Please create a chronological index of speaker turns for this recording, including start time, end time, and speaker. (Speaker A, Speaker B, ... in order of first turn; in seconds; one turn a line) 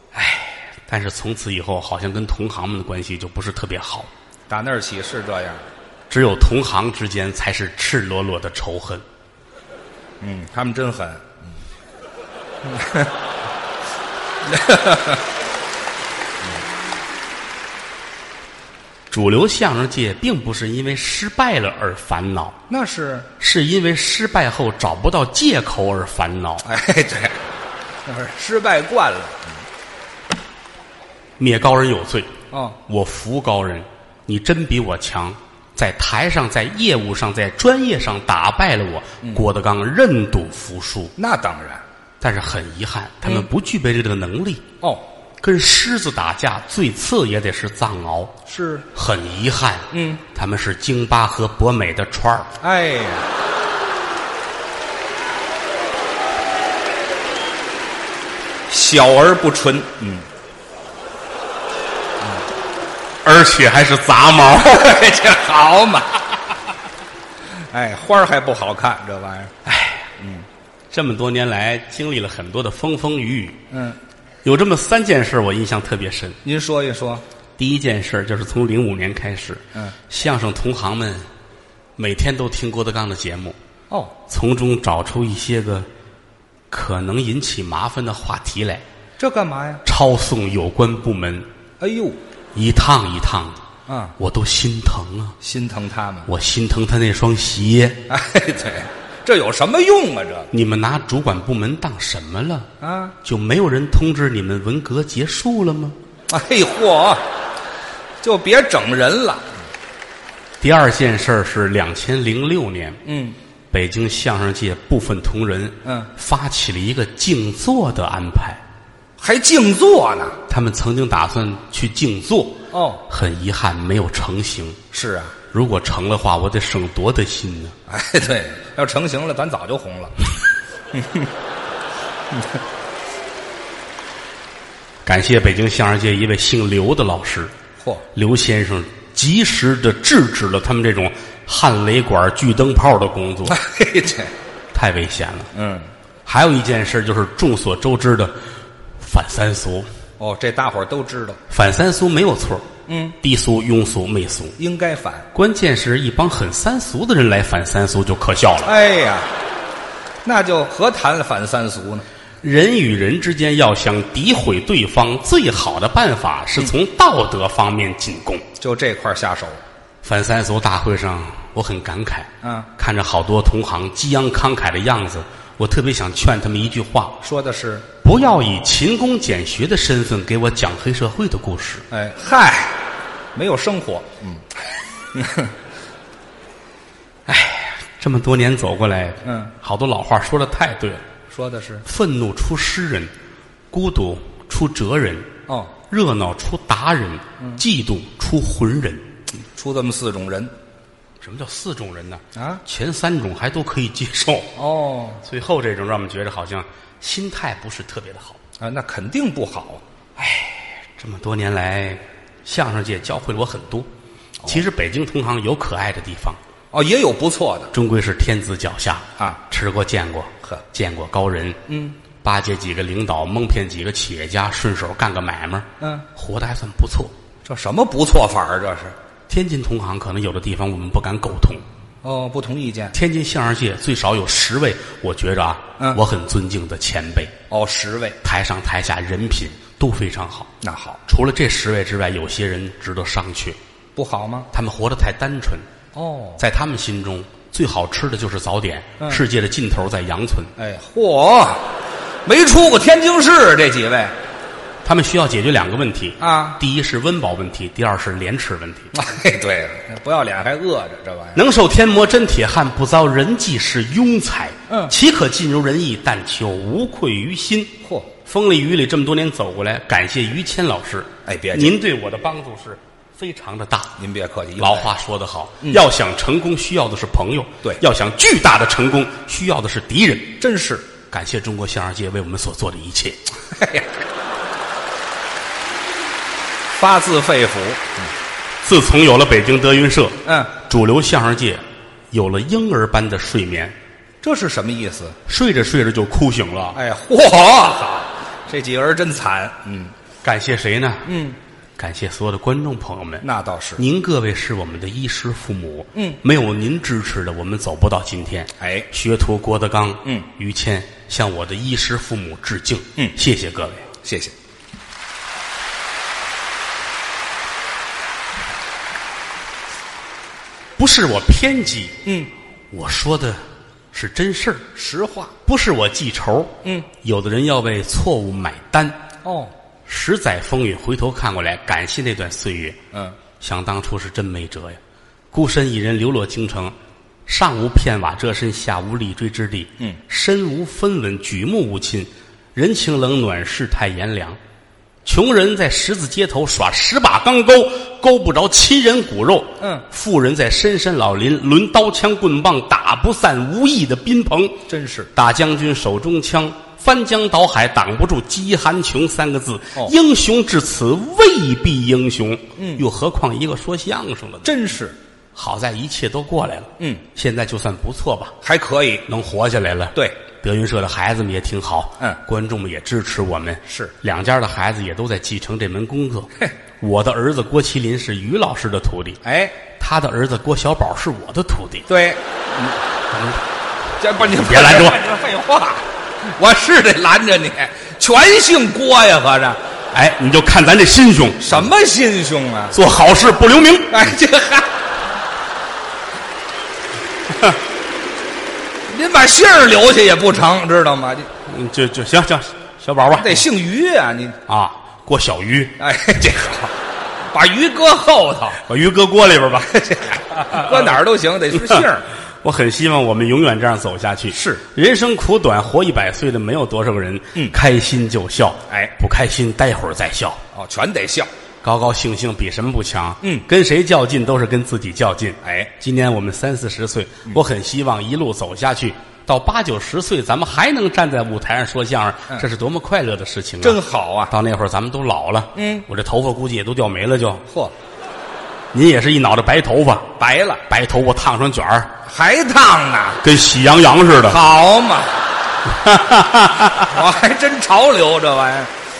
Speaker A: 0.1-4.1
Speaker B: 4.5-5.6
Speaker A: 6.1-9.0
Speaker B: 10.2-11.5
Speaker B: 12.7-13.1
Speaker B: 14.5-15.2
Speaker A: 19.1-22.6
Speaker B: 22.7-23.3
Speaker A: 23.4-26.6
Speaker B: 26.6-27.4
Speaker B: 28.0-29.6
Speaker A: 31.4-32.3
Speaker B: 32.5-32.8
Speaker A: 32.9-41.1
Speaker B: 41.2-41.8
Speaker A: 42.2-44.6
Speaker A: 45.4-48.4
Speaker B: 48.5-48.9
Speaker A: 48.9-52.5
Speaker B: 49.9-50.2
Speaker B: 52.6-53.3
Speaker B: 58.7-60.3
Speaker A: 63.2-65.0
Speaker B: 64.7-66.2
Speaker B: 67.7-69.5
Speaker A: 69.6-70.1
Speaker B: 70.2-70.4
Speaker A: 70.9-73.6
Speaker B: 73.7-74.0
Speaker A: 74.4-76.4
Speaker B: 76.4-77.2
Speaker A: 77.6-81.3
Speaker A: 82.0-83.6
Speaker B: 83.9-84.1
Speaker A: 84.3-85.9
Speaker A: 86.7-88.8
Speaker B: 89.2-89.8
Speaker A: 89.8-91.5
Speaker B: 91.8-92.2
Speaker A: 92.5-93.6
Speaker B: 93.9-94.2
Speaker A: 94.2-95.4
Speaker B: 95.4-96.3
Speaker A: 96.3-98.0
Speaker B: 98.1-100.5
Speaker A: 100.5-102.7
Speaker B: 102.8-103.2
Speaker A: 103.2-106.0
Speaker B: 106.3-107.2
Speaker B: 108.2-109.5
Speaker A: 110.6-113.0
Speaker B: 113.0-113.3
Speaker A: 113.7-118.6
Speaker B: 115.8-116.1
Speaker B: 119.2-120.4
Speaker A: 120.5-124.8
Speaker B: 122.7-123.0
Speaker B: 124.9-125.3
Speaker A: 125.5-127.8
Speaker B: 127.9-130.2
Speaker B: 130.9-131.3
Speaker A: 135.0-137.5
Speaker A: 138.1-143.6
Speaker B: 143.5-144.3
Speaker A: 144.7-145.5
Speaker B: 145.5-145.9
Speaker A: 146.2-148.3
Speaker A: 149.0-149.9
Speaker B: 150.2-151.4
Speaker A: 151.5-152.7
Speaker B: 152.9-153.2
Speaker A: 153.2-154.6
Speaker B: 154.6-155.3
Speaker A: 155.3-158.7
Speaker B: 158.6-159.3
Speaker B: 160.2-162.1
Speaker A: 162.4-168.4
Speaker B: 168.6-169.6
Speaker A: 170.0-177.2
Speaker B: 172.4-172.7
Speaker B: 177.2-177.9
Speaker A: 178.0-181.8
Speaker B: 181.9-182.8
Speaker B: 183.3-184.4
Speaker B: 185.1-185.5
Speaker A: 187.3-191.0
Speaker B: 189.2-189.5
Speaker B: 191.3-191.8
Speaker A: 191.8-193.1
Speaker A: 193.7-195.3
Speaker B: 195.5-195.7
Speaker A: 195.9-199.1
Speaker B: 199.5-200.5
Speaker A: 201.2-204.5
Speaker B: 202.3-202.6
Speaker B: 204.6-205.2
Speaker A: 205.2-208.4
Speaker B: 208.6-209.8
Speaker A: 210.2-213.9
Speaker A: 214.4-216.4
Speaker B: 216.7-217.7
Speaker A: 217.7-221.6
Speaker B: 221.7-221.9
Speaker A: 222.2-227.1
Speaker B: 225.8-226.1
Speaker B: 227.4-228.9
Speaker A: 229.3-231.6
Speaker B: 232.0-232.9
Speaker A: 232.9-237.3
Speaker B: 237.5-238.2
Speaker A: 238.2-240.5
Speaker B: 240.6-241.0
Speaker A: 241.1-243.6
Speaker B: 243.9-244.5
Speaker A: 244.5-245.7
Speaker B: 245.9-246.4
Speaker A: 246.4-250.5
Speaker B: 249.0-249.2
Speaker B: 250.6-251.7
Speaker B: 252.2-254.1
Speaker A: 254.8-258.9
Speaker B: 256.2-256.6
Speaker B: 258.9-261.4
Speaker A: 261.4-274.0
Speaker B: 264.7-264.9
Speaker B: 267.8-268.1
Speaker B: 271.2-271.8
Speaker B: 274.0-274.9
Speaker A: 274.6-280.4
Speaker B: 280.4-280.9
Speaker A: 281.1-283.2
Speaker B: 283.5-283.9
Speaker B: 286.7-288.1
Speaker A: 288.6-293.8
Speaker B: 290.2-290.5
Speaker B: 294.2-295.1
Speaker A: 295.2-296.8
Speaker B: 296.7-299.9
Speaker A: 300.2-301.1
Speaker B: 301.1-301.4
Speaker A: 301.8-303.2
Speaker B: 303.2-303.8
Speaker A: 303.8-313.9
Speaker B: 308.6-308.9
Speaker B: 314.0-314.3
Speaker A: 320.8-322.0
Speaker B: 322.0-322.3
Speaker A: 322.7-324.7
Speaker B: 324.7-325.3
Speaker A: 325.4-329.0
Speaker B: 329.2-329.5
Speaker A: 329.9-332.8
Speaker A: 333.4-334.8
Speaker A: 335.3-344.4
Speaker A: 345.0-354.6
Speaker B: 349.6-349.8
Speaker B: 354.7-355.1
Speaker A: 355.1-364.5
Speaker B: 362.6-362.8
Speaker B: 364.4-364.9
Speaker A: 365.3-368.3
Speaker B: 366.8-367.0
Speaker B: 368.4-369.1
Speaker A: 369.1-379.2
Speaker B: 373.7-373.9
Speaker B: 379.2-379.6
Speaker A: 379.8-381.9
Speaker B: 381.9-382.8
Speaker A: 383.1-383.4
Speaker B: 384.0-389.6
Speaker A: 384.2-385.0
Speaker A: 389.9-391.6
Speaker B: 391.4-392.7
Speaker A: 392.7-394.0
Speaker B: 393.9-394.7
Speaker B: 398.9-401.3
Speaker A: 401.4-403.4
Speaker B: 403.1-404.4
Speaker A: 404.5-405.8
Speaker B: 405.8-406.7
Speaker B: 407.3-408.6
Speaker A: 408.6-409.7
Speaker B: 409.6-412.1
Speaker A: 410.4-410.9
Speaker A: 412.4-420.4
Speaker B: 414.3-414.6
Speaker B: 418.7-418.9
Speaker B: 420.5-421.3
Speaker A: 421.6-437.4
Speaker B: 425.4-425.7
Speaker B: 433.6-434.3
Speaker B: 435.5-435.9
Speaker B: 437.5-437.7
Speaker A: 438.7-441.9
Speaker B: 440.2-440.6
Speaker B: 442.1-443.2
Speaker A: 443.2-444.4
Speaker B: 444.2-445.1
Speaker A: 445.7-446.9
Speaker B: 446.8-448.7